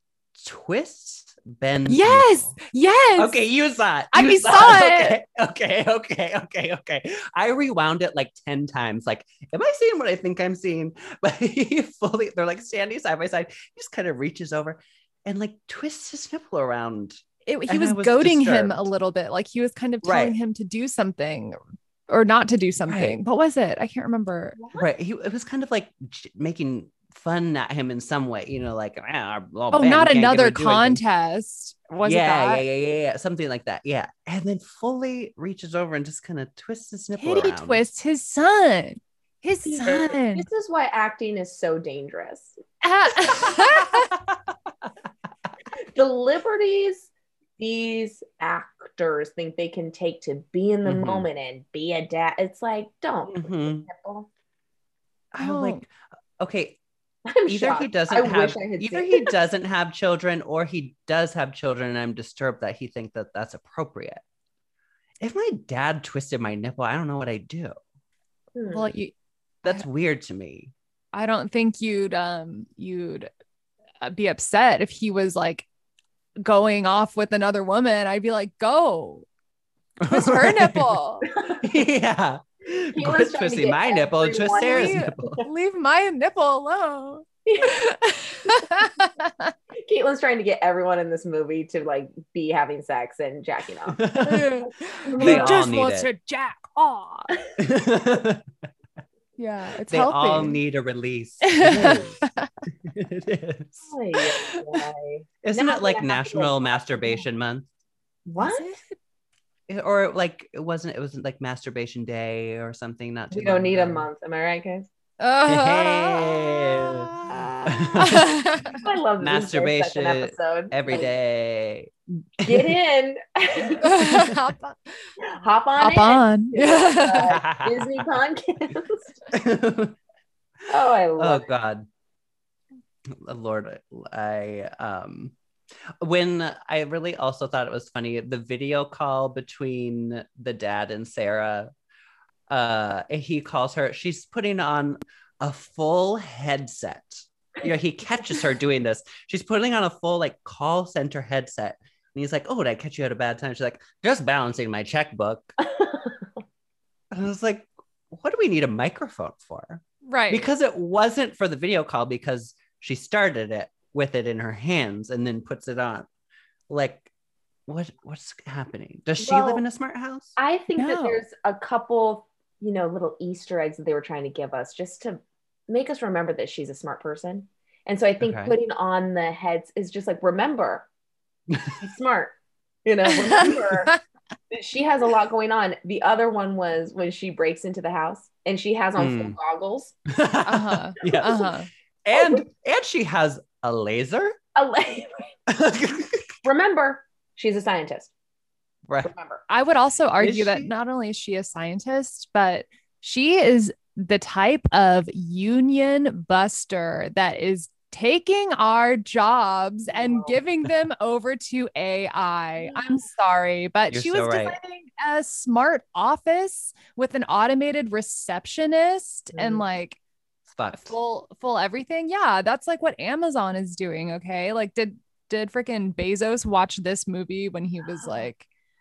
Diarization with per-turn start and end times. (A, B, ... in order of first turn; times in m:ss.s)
0:00.4-0:02.6 A
0:01.9-0:03.4 B
0:03.2-0:18.9 A
0:04.1-0:05.2 B
0:17.4-0:21.6 B
0:20.0-0:20.3 A
0:22.1-0:24.6 B
0:22.9-0:23.2 A
0:24.6-0:24.9 C
0:24.7-0:31.0 A
0:29.7-0:32.6 B
0:32.0-0:37.8 A
0:37.2-0:40.5 B
0:39.6-0:42.6 C
0:42.8-0:44.1 B
0:43.3-0:44.4 A
0:45.9-0:54.3 C
0:50.8-0:51.2 A
0:53.2-0:53.8 A
0:55.3-0:56.8 A
0:55.4-0:55.8 B
0:57.2-0:59.4 C
0:57.5-1:04.2 A
1:05.2-1:07.8 A
1:08.5-1:08.9 C
1:08.7-1:09.1 B
1:09.6-1:10.7 A
1:11.1-1:13.3 B
1:14.0-1:15.6 B
1:16.4-1:19.2 B
1:20.0-1:21.0 A
1:20.1-1:21.3 B
1:21.4-1:21.6 C
1:21.6-1:25.4 A
1:22.9-1:25.4 C
1:24.4-1:29.5 B
1:27.4-1:27.8 C
1:29.7-1:35.7 C
1:33.9-1:34.5 A
1:34.2-1:37.3 B
1:35.2-1:36.1 A
1:37.6-1:38.4 A
1:39.4-1:40.6 B
1:39.9-1:42.2 A
1:41.4-1:42.5 B
1:42.8-1:43.9 A
1:43.9-1:47.2 C
1:45.4-1:47.7 A
1:48.2-1:48.7 C
1:48.4-1:48.8 B
1:49.7-1:54.1 A
1:53.3-1:54.9 C
1:55.2-1:58.8 B
1:55.4-1:57.1 A
1:57.6-1:58.7 A
1:58.7-2:01.1 C
1:59.2-2:02.7 A
2:02.4-2:04.0 C
2:03.8-2:05.0 B
2:04.0-2:04.4 A
2:05.2-2:09.2 C
2:05.8-2:07.4 B
2:07.2-2:08.0 A
2:09.3-2:10.0 A
2:10.7-2:11.5 C
2:11.2-2:11.9 A
2:13.1-2:15.3 A
2:16.0-2:21.7 A
2:22.5-2:35.5 A
2:35.6-2:36.1 C
2:37.1-2:46.1 A
2:40.0-2:40.5 B
2:46.7-2:47.1 A
2:47.7-2:50.3 A
2:49.2-2:49.6 C
2:50.4-3:00.9 C
2:50.8-2:51.2 B
2:58.2-2:58.5 A
3:01.5-3:01.8 A
3:01.8-3:03.9 C
3:03.1-3:04.0 B
3:04.5-3:10.0 C
3:09.0-3:09.4 A
3:10.1-3:11.5 A
3:10.4-3:11.7 B
3:11.0-3:11.4 C
3:12.0-3:14.4 A
3:12.1-3:12.5 C
3:14.5-3:15.3 C
3:15.5-3:16.3 A
3:16.4-3:18.1 C
3:19.0-3:19.4 C
3:19.5-3:40.0 B
3:20.2-3:20.7 A
3:29.9-3:30.4 C
3:32.6-3:33.0 C
3:33.9-3:34.6 A
3:39.3-3:39.6 C
3:40.5-3:41.0 A
3:40.7-3:48.4 B
3:47.9-3:48.2 C